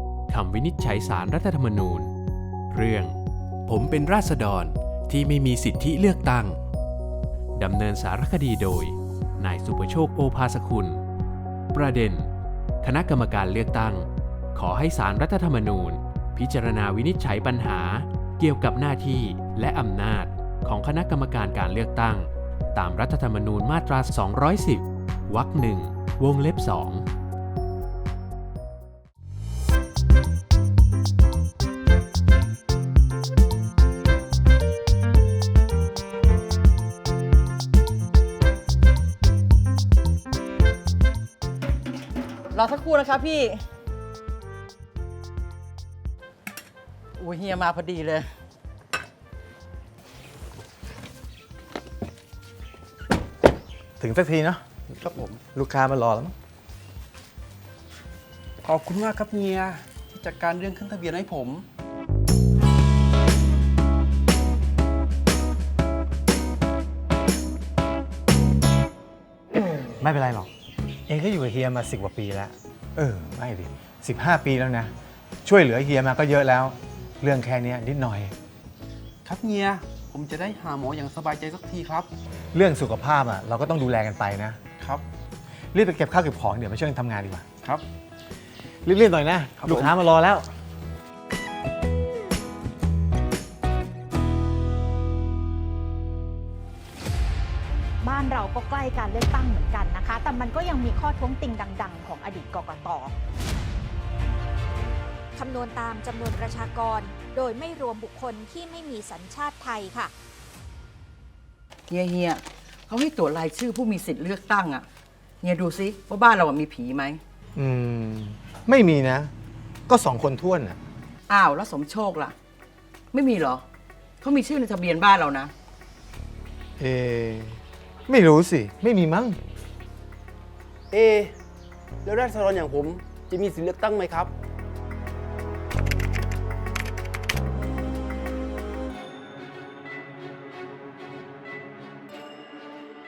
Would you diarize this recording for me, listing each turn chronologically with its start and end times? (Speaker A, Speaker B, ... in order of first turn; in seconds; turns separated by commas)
Speaker A: 0.3-2.1, Speaker A: 2.7-3.1, Speaker A: 3.7-6.6, Speaker A: 7.6-11.0, Speaker A: 11.7-12.3, Speaker A: 12.8-27.0, Speaker B: 42.5-43.6, Speaker B: 47.2-48.2, Speaker C: 54.0-54.6, Speaker D: 55.0-55.4, Speaker C: 55.5-56.3, Speaker D: 58.6-61.6, Speaker C: 70.0-70.5, Speaker C: 71.1-74.9, Speaker C: 75.4-78.3, Speaker D: 79.2-82.1, Speaker C: 82.5-84.6, Speaker C: 85.7-87.4, Speaker C: 88.8-90.5, Speaker D: 89.6-89.9, Speaker E: 98.0-103.1, Speaker F: 105.3-110.1, Speaker B: 111.9-114.8, Speaker B: 115.4-117.2, Speaker C: 117.5-119.3, Speaker C: 119.9-120.8, Speaker B: 121.3-122.3, Speaker B: 123.1-123.6, Speaker B: 124.2-125.5, Speaker C: 126.8-129.4, Speaker D: 130.9-131.3, Speaker D: 132.0-134.3